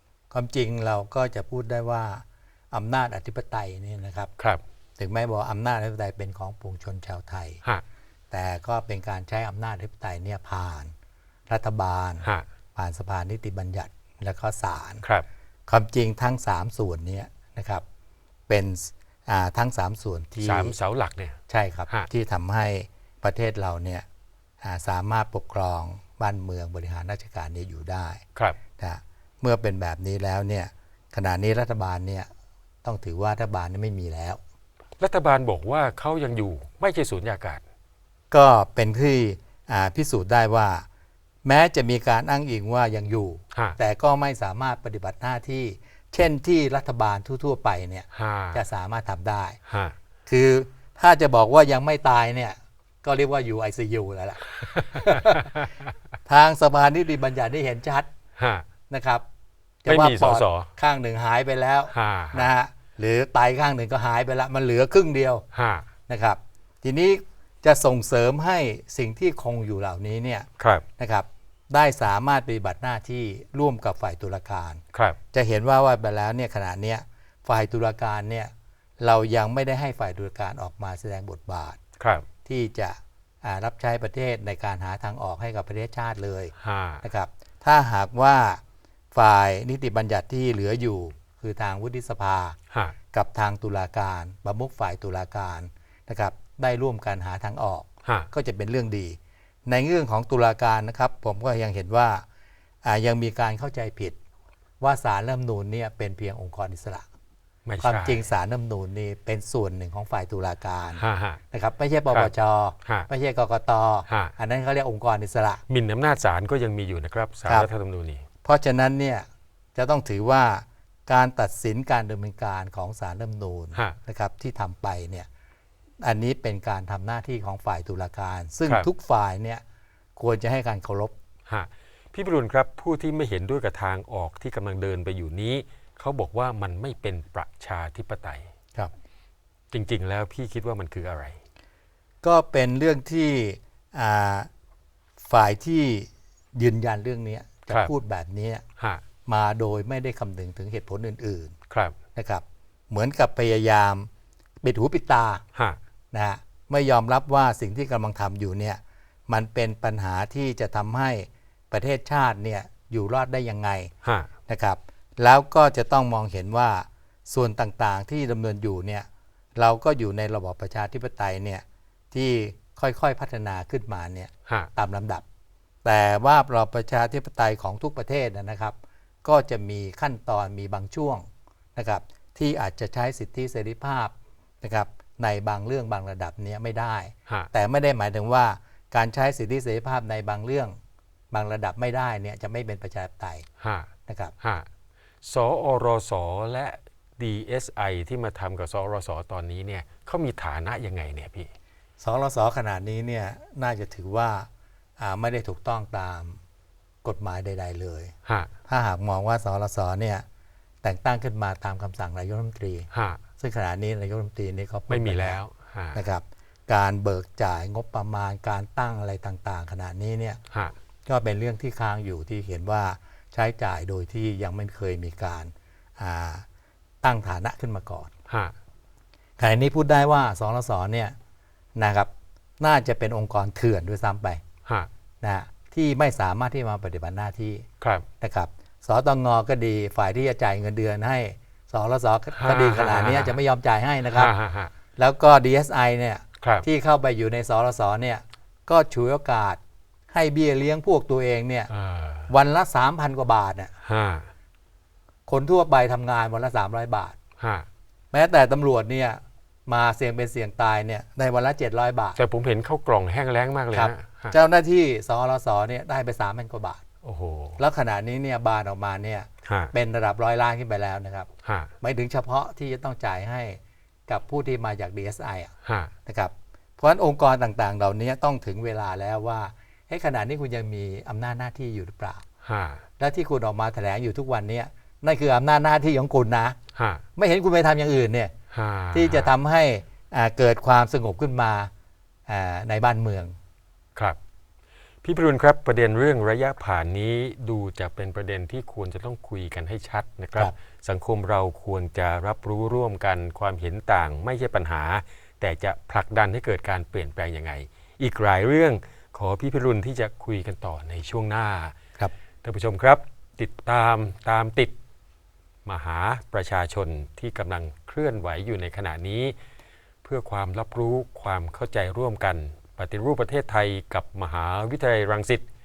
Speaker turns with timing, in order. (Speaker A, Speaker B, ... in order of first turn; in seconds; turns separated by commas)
Speaker A: 0.3-4.3, Speaker A: 5.0-7.6, Speaker A: 8.3-10.9, Speaker A: 11.5-15.0, Speaker A: 15.7-17.8, Speaker A: 18.5-20.8, Speaker B: 20.4-22.1, Speaker A: 21.5-24.1, Speaker A: 24.6-28.2, Speaker A: 28.8-32.3, Speaker A: 32.8-34.4, Speaker B: 35.0-37.6, Speaker A: 38.3-40.9, Speaker A: 41.4-49.6, Speaker B: 48.1-48.6, Speaker B: 49.7-50.0, Speaker A: 50.3-55.6, Speaker B: 54.6-55.9, Speaker A: 56.2-58.1, Speaker B: 58.4-58.7, Speaker A: 58.9-59.2, Speaker A: 59.8-65.5, Speaker B: 59.9-60.7, Speaker B: 61.9-62.5, Speaker B: 65.5-65.9, Speaker A: 66.1-70.5, Speaker B: 70.6-70.8, Speaker A: 71.0-74.8, Speaker A: 75.3-81.8, Speaker B: 82.0-82.3, Speaker A: 82.5-88.6, Speaker B: 86.6-87.0, Speaker A: 89.1-92.6, Speaker A: 93.1-102.2, Speaker A: 102.8-104.2, Speaker A: 104.8-107.1, Speaker B: 107.7-108.2, Speaker A: 107.8-115.6, Speaker B: 111.0-111.4, Speaker B: 114.1-114.3, Speaker B: 115.7-118.2, Speaker A: 118.4-125.3, Speaker A: 126.0-129.6, Speaker A: 130.2-131.1, Speaker B: 131.5-138.5, Speaker B: 139.7-141.4, Speaker A: 142.2-144.5, Speaker A: 145.2-148.6, Speaker B: 148.8-149.0, Speaker A: 149.3-151.5, Speaker B: 151.7-151.9, Speaker A: 152.2-154.1, Speaker A: 154.6-155.4, Speaker A: 156.1-163.9, Speaker B: 164.0-164.3, Speaker A: 164.5-175.2, Speaker A: 175.8-190.8, Speaker A: 191.3-193.5, Speaker B: 193.6-194.7, Speaker A: 194.1-194.3, Speaker B: 195.2-201.5, Speaker A: 202.0-206.4, Speaker A: 207.0-208.1, Speaker A: 208.7-210.2, Speaker A: 210.8-212.9, Speaker B: 212.9-213.2, Speaker A: 213.4-215.4, Speaker B: 214.9-216.0, Speaker A: 215.9-220.4, Speaker A: 221.1-226.4, Speaker A: 227.0-228.1, Speaker B: 228.3-228.5, Speaker A: 229.4-231.2, Speaker A: 231.8-234.4, Speaker A: 235.2-237.7, Speaker A: 238.2-244.3, Speaker B: 242.4-243.4, Speaker B: 244.1-244.7, Speaker A: 245.0-249.6, Speaker B: 246.4-246.7, Speaker A: 250.1-251.7, Speaker B: 251.7-252.3, Speaker A: 252.3-253.7, Speaker B: 253.8-254.3, Speaker A: 255.3-257.2, Speaker B: 257.4-257.7, Speaker A: 258.1-262.2, Speaker B: 262.2-264.4, Speaker A: 263.7-266.8, Speaker B: 267.0-267.6, Speaker A: 267.6-271.3, Speaker B: 269.4-269.7, Speaker B: 271.4-271.7, Speaker A: 271.8-275.5, Speaker B: 275.6-275.9, Speaker A: 276.1-282.2, Speaker B: 282.4-282.8, Speaker A: 283.0-286.6, Speaker B: 286.8-287.0, Speaker A: 287.2-288.3, Speaker B: 288.5-289.3, Speaker A: 288.9-291.7, Speaker A: 292.3-293.4, Speaker B: 295.0-311.8, Speaker B: 312.4-314.7, Speaker B: 315.6-319.4, Speaker B: 320.0-325.4